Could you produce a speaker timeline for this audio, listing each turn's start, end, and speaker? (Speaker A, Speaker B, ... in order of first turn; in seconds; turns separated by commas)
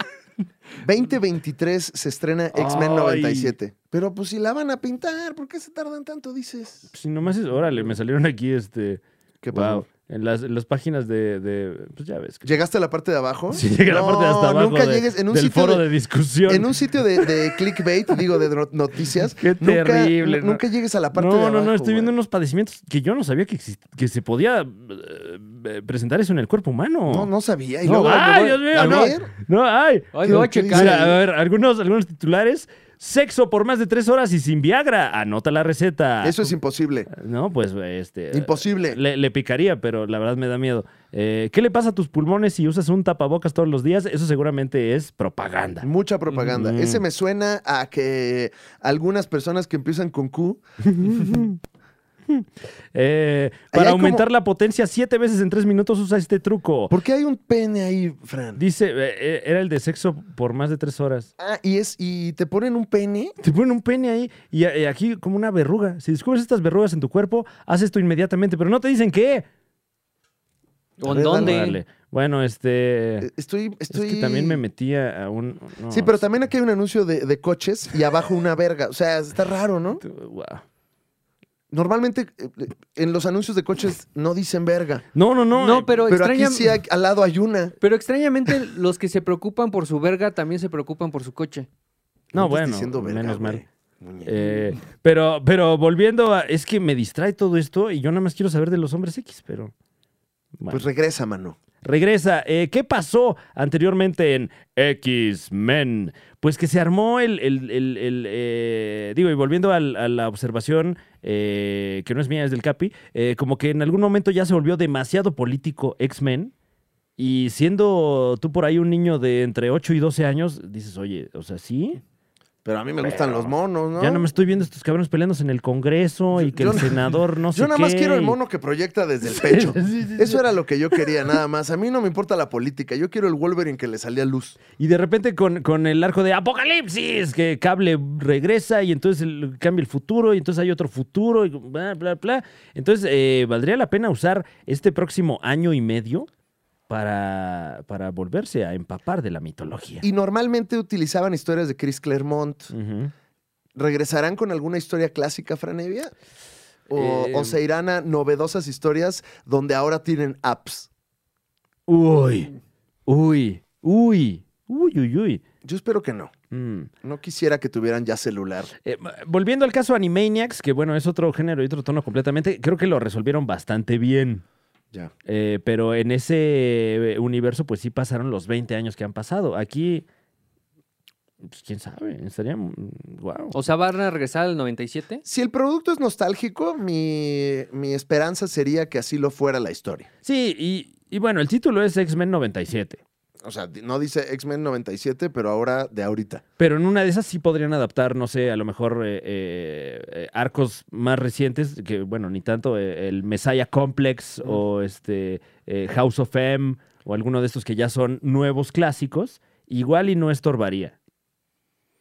Speaker A: 0.8-6.9, Speaker B: 2.5-3.5, Speaker B: 6.9-12.5, Speaker A: 9.4-9.9, Speaker A: 12.4-15.8, Speaker B: 13.5-17.5, Speaker A: 16.5-22.1, Speaker B: 19.4-20.6, Speaker B: 21.1-27.3, Speaker A: 27.1-29.3, Speaker B: 27.8-36.5, Speaker C: 30.1-31.1, Speaker A: 30.3-31.2, Speaker A: 36.2-37.1, Speaker B: 37.1-45.9, Speaker A: 38.3-39.0, Speaker A: 45.8-50.6, Speaker B: 46.4-47.0, Speaker B: 50.9-51.6, Speaker B: 52.3-56.9, Speaker A: 53.7-54.3, Speaker A: 56.9-58.6, Speaker B: 58.6-61.3, Speaker A: 61.4-63.3, Speaker B: 63.4-69.5, Speaker C: 71.0-71.8, Speaker A: 71.0-71.6, Speaker B: 71.1-73.3, Speaker A: 73.2-74.6, Speaker B: 73.9-76.2, Speaker A: 75.9-80.0, Speaker B: 80.0-80.6, Speaker A: 81.7-85.0, Speaker B: 85.1-86.0, Speaker C: 85.5-86.8, Speaker A: 86.1-87.7, Speaker C: 87.8-91.7, Speaker B: 92.3-93.6, Speaker A: 92.3-94.4, Speaker B: 94.2-99.7, Speaker B: 100.6-100.9, Speaker A: 100.7-101.6, Speaker B: 101.8-116.5, Speaker B: 117.2-122.0, Speaker A: 122.6-124.2, Speaker B: 123.0-128.4, Speaker A: 126.3-134.6, Speaker B: 129.3-130.4, Speaker B: 134.8-146.3, Speaker B: 146.9-150.1, Speaker A: 150.0-152.7, Speaker B: 152.7-153.1, Speaker A: 153.8-156.1, Speaker A: 156.9-160.9, Speaker B: 156.9-157.6, Speaker B: 161.9-162.5, Speaker B: 163.1-165.4, Speaker A: 165.6-166.3, Speaker B: 166.5-166.9, Speaker A: 167.0-168.7, Speaker B: 168.8-174.4, Speaker B: 175.3-180.1, Speaker B: 181.4-183.6, Speaker C: 183.5-185.2, Speaker A: 185.2-190.1, Speaker B: 190.2-193.0, Speaker A: 193.4-196.4, Speaker B: 196.6-210.9